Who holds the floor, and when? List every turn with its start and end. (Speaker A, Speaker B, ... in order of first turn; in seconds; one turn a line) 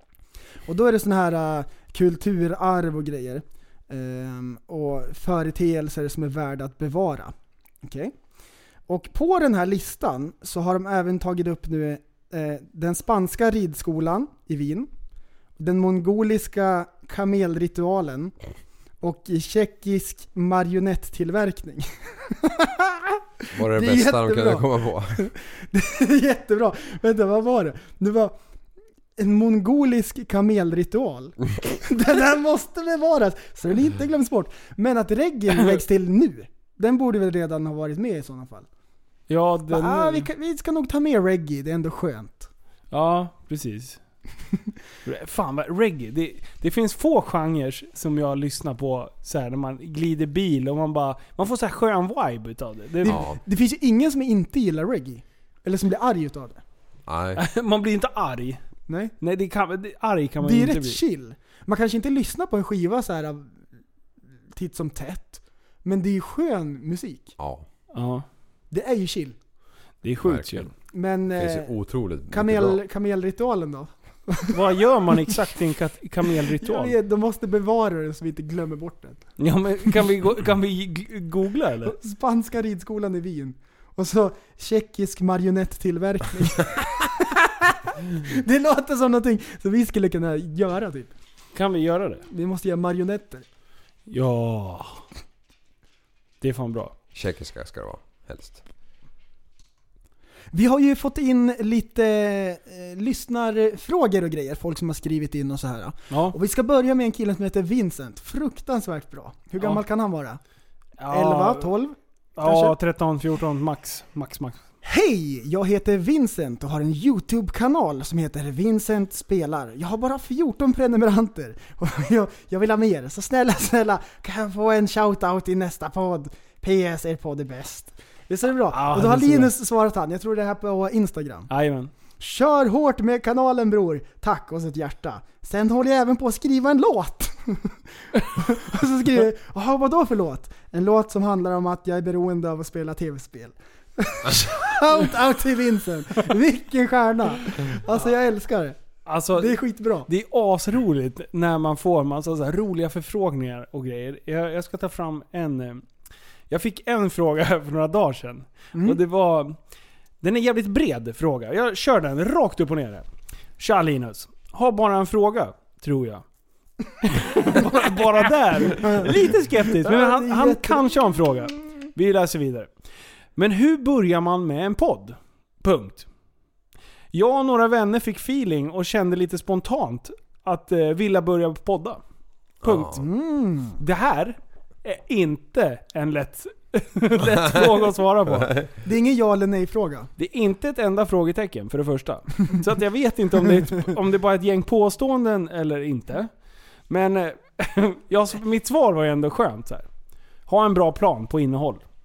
Speaker A: 0.7-8.1
Speaker A: 8.9-14.9
Speaker A: 15.6-18.3
Speaker A: 19.0-28.3
Speaker B: 23.5-25.2
Speaker A: 29.2-38.7
Speaker C: 39.3-40.3
Speaker A: 39.7-42.5
Speaker C: 42.9-44.0
Speaker C: 45.0-53.2
Speaker A: 53.0-56.6
Speaker B: 53.0-53.4
Speaker B: 57.1-57.4
Speaker C: 57.4-58.6
Speaker A: 58.9-59.1
Speaker C: 59.2-61.0
Speaker A: 60.4-63.6
Speaker A: 64.5-67.3
Speaker B: 67.4-67.7
Speaker C: 67.9-68.2
Speaker A: 68.7-69.3
Speaker C: 70.0-70.7
Speaker B: 70.2-70.7
Speaker A: 70.9-71.7
Speaker B: 71.3-72.8
Speaker A: 72.3-74.5
Speaker C: 74.5-76.9
Speaker A: 76.6-79.3
Speaker C: 79.4-81.9
Speaker A: 81.8-91.1
Speaker C: 91.5-92.2
Speaker A: 92.3-93.4
Speaker C: 94.1-95.0
Speaker C: 96.4-96.9
Speaker B: 97.1-98.6
Speaker A: 100.5-110.4
Speaker C: 106.1-106.3
Speaker C: 109.6-109.8
Speaker C: 111.0-111.7
Speaker A: 111.1-112.7
Speaker C: 112.4-114.6
Speaker A: 114.8-131.5
Speaker C: 128.7-129.5
Speaker C: 131.5-131.9
Speaker A: 132.2-148.8
Speaker C: 149.1-155.8
Speaker A: 149.3-150.1
Speaker C: 156.5-159.6
Speaker C: 160.2-163.1
Speaker C: 163.6-166.2
Speaker C: 167.0-172.7
Speaker A: 168.6-171.2
Speaker C: 173.3-176.1
Speaker C: 177.1-182.0
Speaker B: 182.6-183.0
Speaker C: 182.6-183.0
Speaker A: 182.9-183.8
Speaker C: 183.8-188.6
Speaker B: 187.4-188.7
Speaker A: 188.8-190.1
Speaker C: 190.2-196.3
Speaker C: 196.9-199.8
Speaker C: 200.5-201.8